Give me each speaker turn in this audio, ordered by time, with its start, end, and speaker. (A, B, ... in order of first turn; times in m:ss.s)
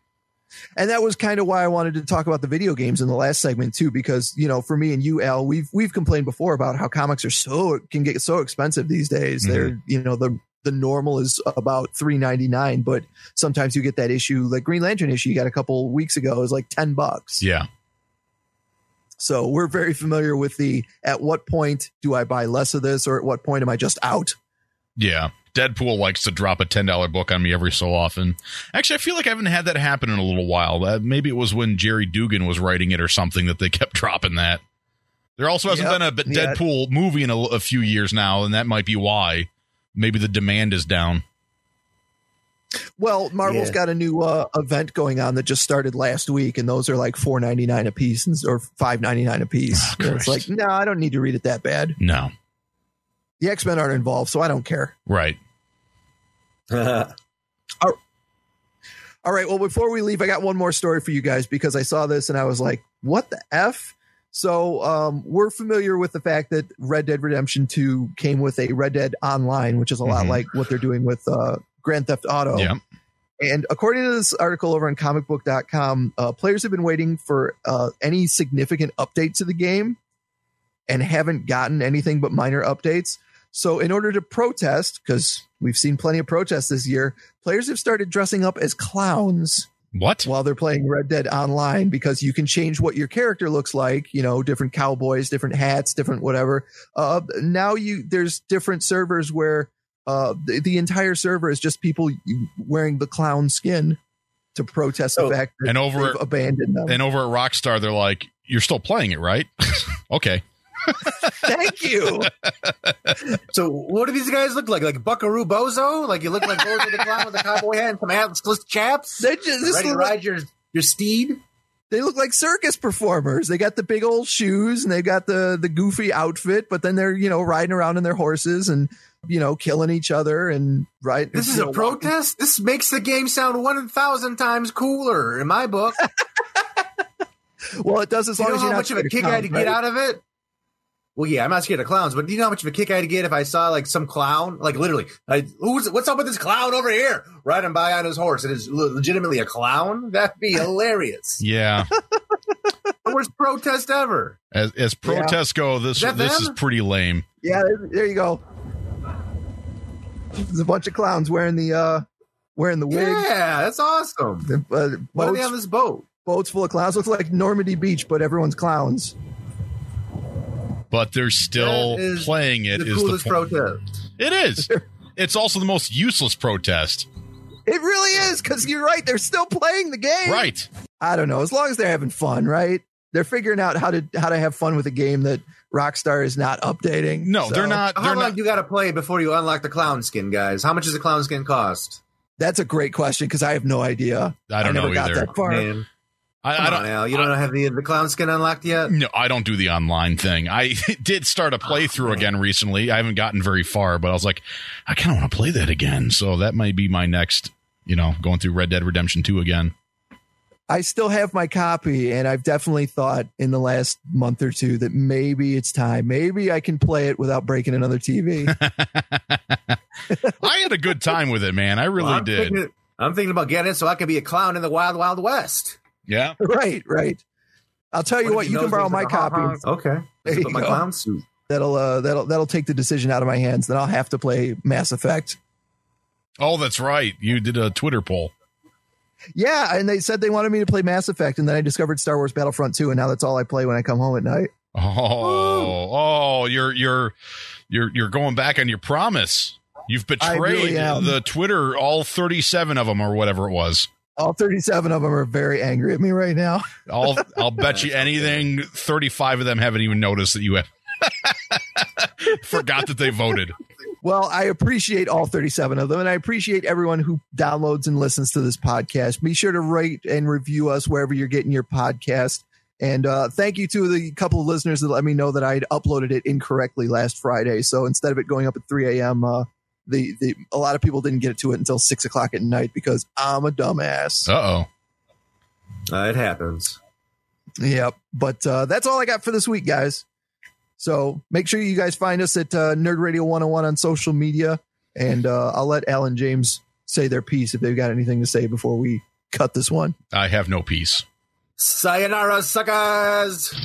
0:00.8-0:17.4 A
0:09.4-0:09.7 B
0:17.4-0:17.7 B
0:19.2-0:24.4 A
0:25.0-0:34.6 B
0:35.4-0:41.2 B
0:35.7-0:36.6 A
0:43.0-0:52.0 A
0:43.4-0:43.8 C
0:49.7-0:50.5 B
0:52.0-0:52.3 B
0:53.4-0:55.0 A
0:55.1-0:55.4 B
0:56.7-0:57.2 C
0:59.2-1:12.7 A
1:10.1-1:10.4 B
1:12.5-1:12.8 B
1:13.4-1:20.0 A
1:20.9-1:29.7 A
1:29.9-1:30.3 B
1:30.2-1:44.0 A
1:44.6-1:47.0 A
1:45.6-1:46.2 B
1:46.9-1:51.5 B
1:51.3-1:52.3 A
1:52.2-1:53.1 B
1:53.5-2:01.4 C
1:59.2-2:00.2 A
2:01.9-2:12.1 A
2:11.3-2:16.1 C
2:17.7-2:19.8 A
2:18.4-2:20.2 C
2:21.2-2:31.4 C
2:31.4-2:32.0 B
2:33.0-2:34.4 C
2:34.5-2:37.2 B
2:35.0-2:35.4 A
2:36.0-2:36.6 C
2:37.4-2:38.4 A
2:40.4-2:42.0 A
2:42.6-2:43.3 A
2:42.9-2:44.5 C
2:44.5-2:45.6 A
2:45.1-2:46.0 C
2:46.3-2:49.2 A
2:50.9-2:53.3 B
2:51.6-2:53.9 C
2:54.2-2:57.1 B
2:54.6-2:54.8 A
2:57.7-3:07.8 A
3:00.3-3:00.7 B
3:07.2-3:08.4 B
3:08.0-3:12.0 C
3:12.4-3:15.7 A
3:14.5-3:15.3 B
3:15.4-3:15.9 C
3:16.4-3:17.3 B
3:16.6-3:18.9 C
3:18.9-3:29.7 B
3:21.7-3:22.2 C
3:30.7-3:38.6 A
3:38.5-3:39.8 B
3:40.3-3:42.6 B
3:42.0-3:45.8 C
3:46.1-3:46.4 B
3:46.4-3:47.2 A
3:47.9-3:49.6 A
3:48.2-3:51.2 C
3:50.3-3:50.9 A
3:51.5-3:55.4 A
3:56.4-3:58.3 B
3:59.4-4:04.5 A
4:04.8-4:07.2 B
4:05.2-4:05.7 A
4:07.7-4:13.9 B
4:10.2-4:11.2 A
4:14.2-4:16.7 A
4:16.9-4:23.6 B
4:17.6-4:18.5 C
4:24.0-4:44.3 A
4:44.3-4:44.7 B
4:45.9-4:46.8 C
4:47.6-4:50.0 A
4:50.8-5:00.0 A
5:00.1-5:01.0 B
5:01.6-5:03.6 C